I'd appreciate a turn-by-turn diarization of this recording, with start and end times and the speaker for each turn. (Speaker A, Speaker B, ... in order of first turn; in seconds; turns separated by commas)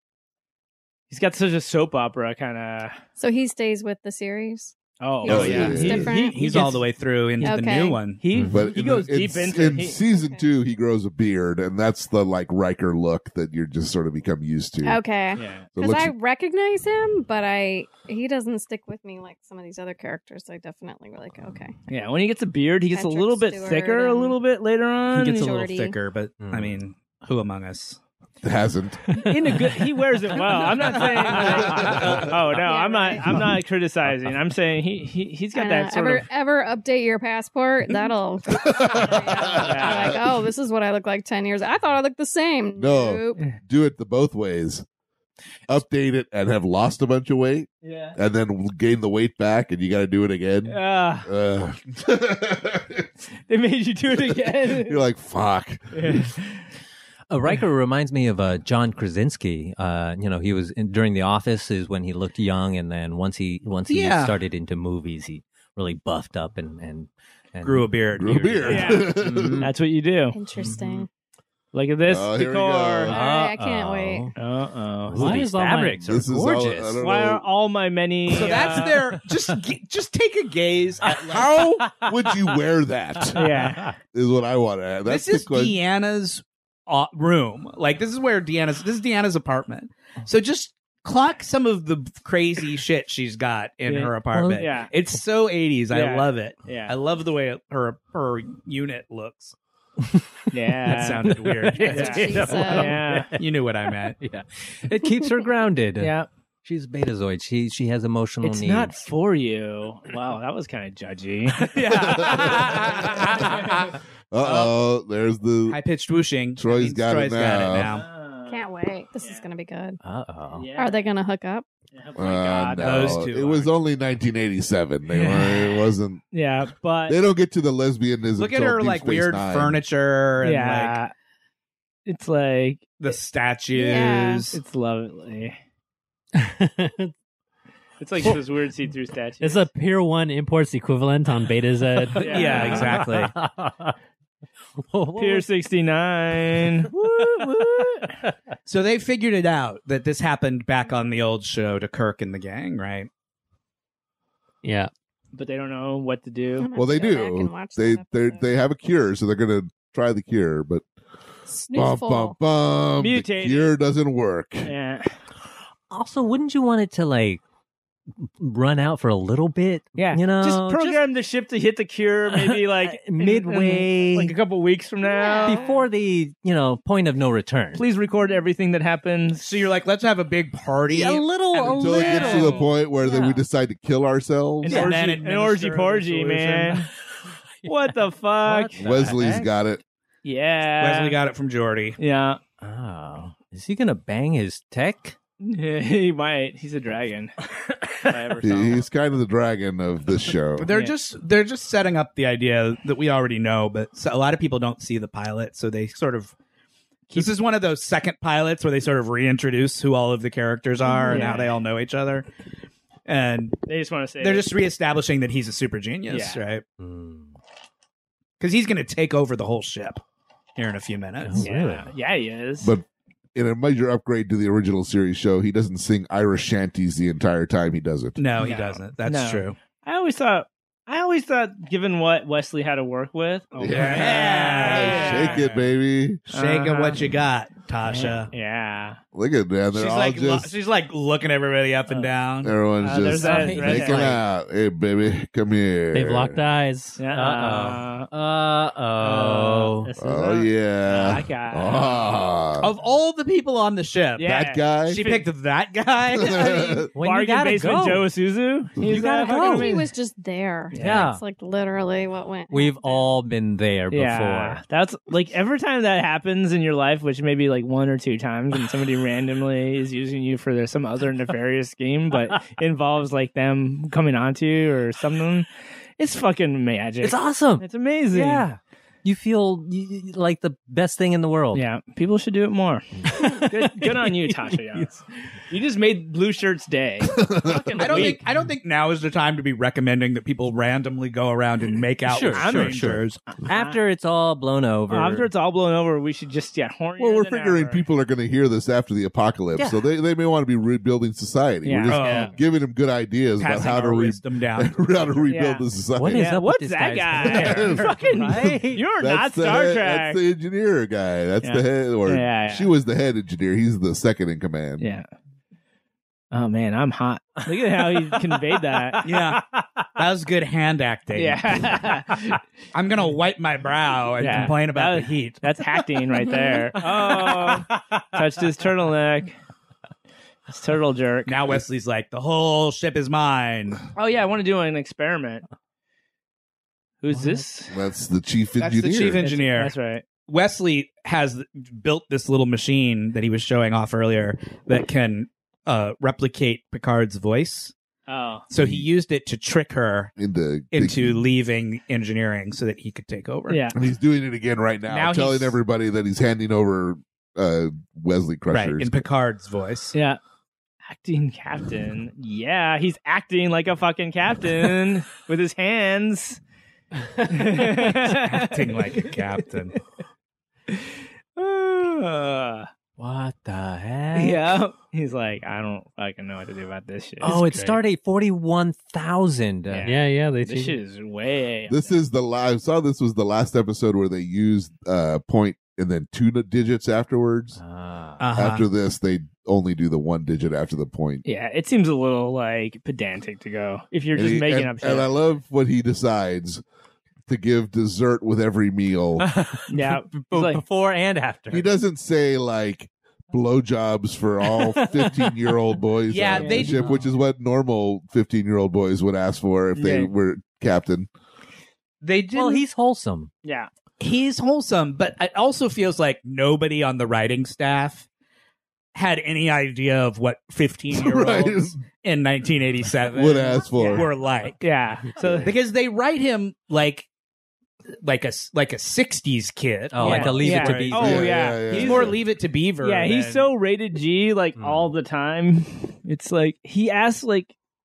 Speaker A: 1.1-3.0, Speaker B: 3.2-6.6, Speaker A: 5.0-6.9, Speaker C: 5.2-6.1, Speaker D: 5.5-8.2, Speaker B: 7.4-8.0, Speaker A: 8.2-10.0, Speaker E: 8.3-8.7, Speaker C: 8.5-15.0, Speaker B: 10.0-10.5, Speaker B: 14.8-21.7, Speaker A: 15.4-15.7, Speaker C: 15.8-16.1, Speaker A: 21.9-25.6, Speaker B: 22.9-24.4, Speaker D: 25.1-28.0, Speaker B: 25.4-26.0, Speaker E: 26.4-26.8, Speaker C: 28.4-29.1, Speaker A: 29.1-36.2, Speaker D: 30.5-32.0, Speaker C: 31.4-32.4, Speaker B: 32.5-33.4, Speaker B: 35.5-43.4, Speaker C: 38.5-40.3, Speaker A: 39.5-40.2, Speaker C: 42.8-44.9, Speaker C: 45.7-53.1, Speaker A: 47.8-48.2, Speaker A: 50.7-51.3, Speaker A: 53.5-55.0, Speaker C: 54.2-56.3, Speaker A: 55.9-56.4, Speaker E: 57.3-68.0, Speaker D: 63.9-64.4, Speaker D: 67.6-69.1, Speaker C: 68.2-69.7, Speaker A: 68.6-70.4, Speaker E: 68.7-69.7, Speaker B: 70.3-71.1, Speaker E: 70.6-71.0, Speaker A: 71.7-73.2, Speaker C: 72.1-73.2, Speaker B: 73.1-74.3, Speaker E: 73.1-74.4, Speaker A: 74.4-75.5, Speaker E: 75.1-77.0, Speaker F: 75.1-76.2, Speaker C: 76.1-77.5, Speaker A: 77.0-79.0, Speaker D: 78.3-81.5, Speaker E: 78.7-79.0, Speaker C: 81.2-83.4, Speaker E: 83.3-83.9, Speaker A: 83.3-83.9, Speaker C: 84.1-85.8, Speaker D: 85.1-99.5, Speaker A: 93.9-94.9, Speaker E: 94.3-94.6, Speaker A: 95.9-97.0, Speaker A: 100.5-103.4, Speaker D: 100.8-102.8, Speaker E: 101.0-103.4, Speaker B: 101.8-103.0, Speaker D: 103.3-104.2, Speaker E: 104.2-109.0, Speaker A: 106.0-106.3, Speaker A: 108.4-112.8, Speaker D: 111.5-114.8, Speaker C: 111.9-113.6, Speaker A: 113.4-113.7, Speaker C: 114.3-115.8, Speaker D: 115.7-118.1, Speaker C: 116.6-118.0, Speaker A: 117.8-118.6, Speaker B: 118.5-120.0, Speaker E: 120.0-120.7, Speaker A: 120.5-121.0, Speaker B: 120.8-121.7, Speaker A: 121.9-123.2, Speaker C: 122.2-126.2, Speaker D: 122.8-123.8, Speaker A: 125.1-127.2, Speaker C: 127.1-129.8, Speaker D: 128.4-131.0, Speaker A: 130.4-131.1, Speaker A: 132.1-133.0, Speaker D: 133.0-134.6, Speaker B: 133.7-134.5, Speaker A: 134.5-135.6, Speaker F: 136.3-137.1, Speaker A: 138.0-139.7, Speaker F: 139.4-142.6, Speaker A: 142.2-143.1, Speaker E: 142.2-143.9, Speaker D: 142.2-143.3, Speaker E: 144.9-145.5, Speaker A: 145.2-148.2, Speaker E: 146.9-148.3, Speaker D: 148.7-153.1, Speaker F: 154.6-154.9, Speaker A: 155.3-156.7, Speaker B: 156.6-158.5, Speaker C: 156.7-160.8, Speaker B: 161.5-162.4, Speaker C: 161.7-164.7, Speaker A: 163.0-163.7, Speaker A: 164.6-165.1, Speaker E: 165.9-167.4, Speaker E: 168.2-171.1, Speaker A: 169.9-175.7, Speaker E: 172.3-174.4, Speaker B: 175.0-175.8, Speaker E: 175.4-177.8, Speaker A: 177.7-179.5, Speaker D: 179.4-182.7, Speaker E: 180.9-182.7, Speaker C: 181.7-184.8, Speaker A: 182.1-182.7, Speaker B: 183.0-183.4, Speaker A: 184.6-186.9, Speaker E: 184.7-184.9, Speaker D: 184.7-186.9, Speaker A: 187.7-188.9, Speaker E: 188.4-189.6, Speaker C: 188.8-189.8, Speaker A: 190.2-191.2, Speaker D: 190.8-192.0, Speaker A: 192.0-192.4, Speaker E: 192.6-195.2, Speaker A: 195.4-197.3, Speaker A: 197.8-198.9, Speaker C: 198.4-200.7, Speaker D: 200.6-206.3, Speaker A: 200.7-201.0, Speaker D: 207.1-212.3, Speaker B: 210.8-211.5, Speaker A: 211.1-211.5, Speaker D: 213.1-213.6, Speaker A: 213.7-214.5, Speaker D: 214.2-216.6, Speaker A: 216.1-216.5, Speaker E: 216.8-217.4, Speaker D: 218.4-220.0, Speaker D: 220.6-221.5, Speaker E: 221.2-221.9, Speaker A: 221.4-222.7, Speaker C: 222.6-228.2, Speaker D: 228.2-229.6, Speaker A: 228.4-235.7, Speaker C: 233.6-236.2, Speaker D: 233.7-235.5, Speaker A: 236.3-237.1, Speaker D: 236.3-238.3, Speaker A: 237.9-239.0, Speaker C: 239.1-240.5, Speaker D: 239.7-242.6, Speaker C: 242.4-246.4, Speaker A: 242.8-244.2, Speaker E: 243.2-244.2, Speaker F: 245.9-247.0, Speaker A: 247.0-248.1, Speaker E: 247.1-249.9, Speaker A: 249.0-252.3, Speaker C: 250.0-252.7, Speaker D: 252.6-256.8, Speaker A: 254.2-255.3, Speaker C: 254.2-255.0, Speaker C: 256.1-256.9, Speaker A: 256.3-259.9, Speaker E: 256.9-258.1, Speaker E: 258.8-259.7, Speaker B: 259.4-263.1, Speaker A: 260.7-261.1, Speaker E: 260.8-261.2, Speaker E: 262.5-264.6, Speaker A: 263.9-275.5, Speaker A: 276.0-278.5, Speaker E: 277.0-281.6, Speaker A: 281.5-288.2, Speaker C: 287.0-288.1, Speaker D: 287.8-293.2, Speaker E: 292.1-295.3, Speaker A: 292.3-292.9, Speaker A: 293.4-293.8, Speaker A: 294.9-297.8, Speaker C: 297.0-306.4, Speaker E: 299.6-299.8, Speaker A: 301.6-302.3, Speaker D: 301.9-302.3, Speaker F: 301.9-302.3, Speaker D: 303.4-305.3, Speaker A: 305.3-310.2, Speaker E: 305.9-308.8, Speaker C: 307.2-314.9, Speaker A: 311.4-312.7, Speaker A: 314.8-315.1, Speaker A: 316.3-319.4, Speaker E: 317.4-319.1, Speaker D: 319.0-319.4, Speaker D: 320.0-321.6, Speaker A: 321.1-322.4, Speaker D: 322.7-325.4, Speaker A: 324.2-329.4, Speaker E: 326.7-328.0, Speaker A: 330.5-331.5, Speaker D: 331.3-333.8, Speaker A: 334.0-335.4, Speaker A: 337.0-337.8, Speaker E: 337.1-337.4, Speaker C: 337.7-339.2, Speaker D: 338.6-339.8, Speaker A: 339.2-340.1, Speaker D: 340.3-347.7, Speaker A: 348.1-348.5, Speaker D: 348.5-350.1, Speaker C: 348.6-348.9, Speaker C: 350.2-351.2, Speaker D: 350.7-353.6, Speaker A: 353.5-353.8, Speaker C: 353.8-359.0, Speaker A: 354.9-355.5, Speaker D: 358.5-359.9, Speaker A: 359.9-360.2, Speaker A: 360.9-366.4, Speaker A: 367.2-369.8, Speaker D: 367.9-369.8, Speaker A: 370.7-372.7, Speaker E: 373.0-374.6, Speaker A: 374.1-377.4, Speaker E: 377.2-379.9, Speaker F: 377.3-377.8, Speaker A: 379.7-382.0, Speaker F: 379.9-380.8, Speaker C: 381.7-387.6, Speaker E: 387.6-388.2, Speaker D: 388.2-388.7, Speaker C: 388.4-391.2, Speaker A: 391.2-395.1, Speaker C: 394.1-396.6, Speaker C: 397.3-399.3, Speaker E: 399.2-401.7, Speaker A: 399.7-400.6, Speaker C: 401.5-411.1, Speaker D: 406.1-406.9, Speaker A: 406.4-406.8, Speaker A: 409.8-410.1, Speaker D: 412.0-412.7, Speaker E: 412.3-413.3, Speaker A: 413.4-413.7, Speaker D: 414.0-418.1, Speaker D: 418.9-424.6, Speaker C: 420.9-421.8, Speaker C: 423.1-424.1, Speaker A: 423.7-424.1, Speaker A: 424.6-425.5, Speaker C: 425.2-425.5, Speaker D: 425.4-427.1, Speaker D: 428.0-433.5, Speaker E: 429.9-431.4, Speaker A: 430.0-432.2, Speaker C: 431.0-432.2, Speaker A: 432.8-437.5, Speaker E: 434.6-434.9